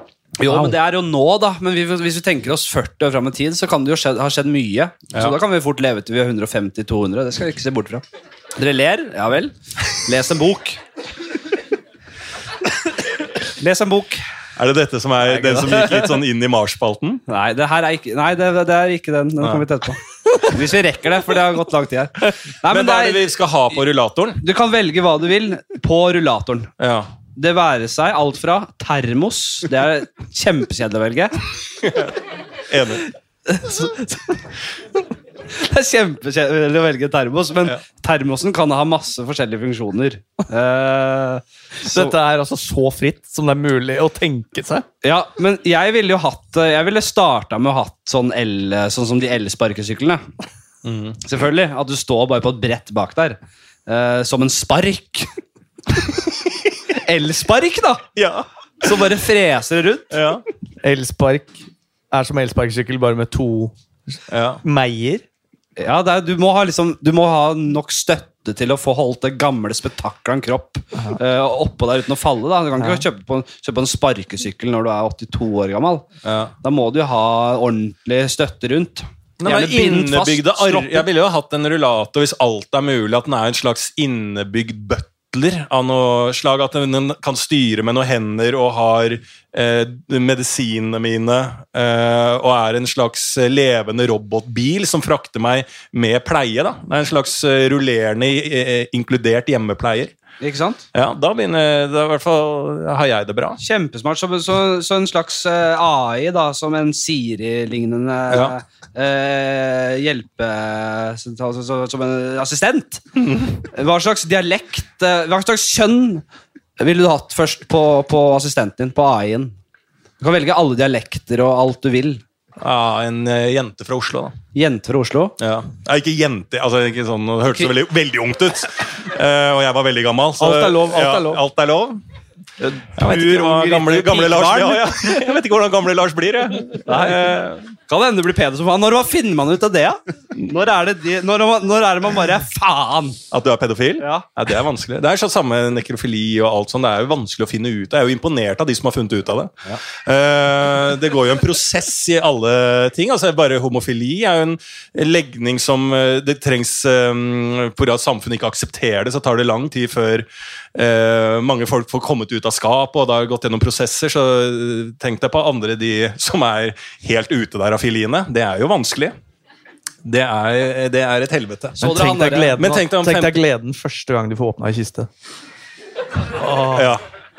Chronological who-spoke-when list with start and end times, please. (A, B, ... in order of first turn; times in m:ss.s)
0:00.4-0:08.0 A
0:00.5-0:00.8 B
0:08.6-0:10.8 A
0:13.6-0:14.2 A
0:14.6-0:17.2 C
0:15.2-0:16.1 A
0:17.3-0:23.3 A
0:19.4-0:19.7 C
0:22.6-0:24.4 C
0:24.4-0:26.7 A
0:26.8-0:27.1 C
0:27.4-0:31.4 A
0:31.8-0:32.1 C
0:32.7-0:33.1 C
0:33.6-0:34.1 B
0:35.5-0:42.1 A
0:41.8-0:44.9 B
0:45.0-0:50.2 A
0:50.8-0:51.2 C
0:51.2-0:55.3 A
0:56.9-0:58.1 A
0:58.2-0:58.5 C
0:58.8-1:00.1 A
1:00.1-1:00.4 C
1:00.8-1:03.7 B
1:04.3-1:04.6 C
1:04.6-1:05.2 B
1:05.8-1:16.0 A
1:12.8-1:13.0 B
1:16.2-1:16.5 C
1:16.6-1:21.1 A
1:19.4-1:40.1 C
1:40.4-1:40.8 A
1:40.9-1:43.6 C
1:43.6-1:53.0 A
1:48.3-1:48.6 C
1:53.2-1:53.6 C
1:53.7-1:56.2 A
1:56.8-1:59.5 A
2:00.2-2:02.2 A
2:02.6-2:04.4 C
2:04.6-2:05.4 A
2:05.4-2:12.0 C
2:10.4-2:11.3 B
2:13.0-2:17.6 C
2:13.0-2:15.1 A
2:16.9-2:23.2 A
2:23.3-2:49.2 C
2:24.0-2:24.3 A
2:50.0-2:51.8 C
2:51.8-2:52.6 A
2:51.8-2:55.1 B
2:52.6-2:53.4 C
2:56.3-2:56.9 B
2:56.7-2:57.0 C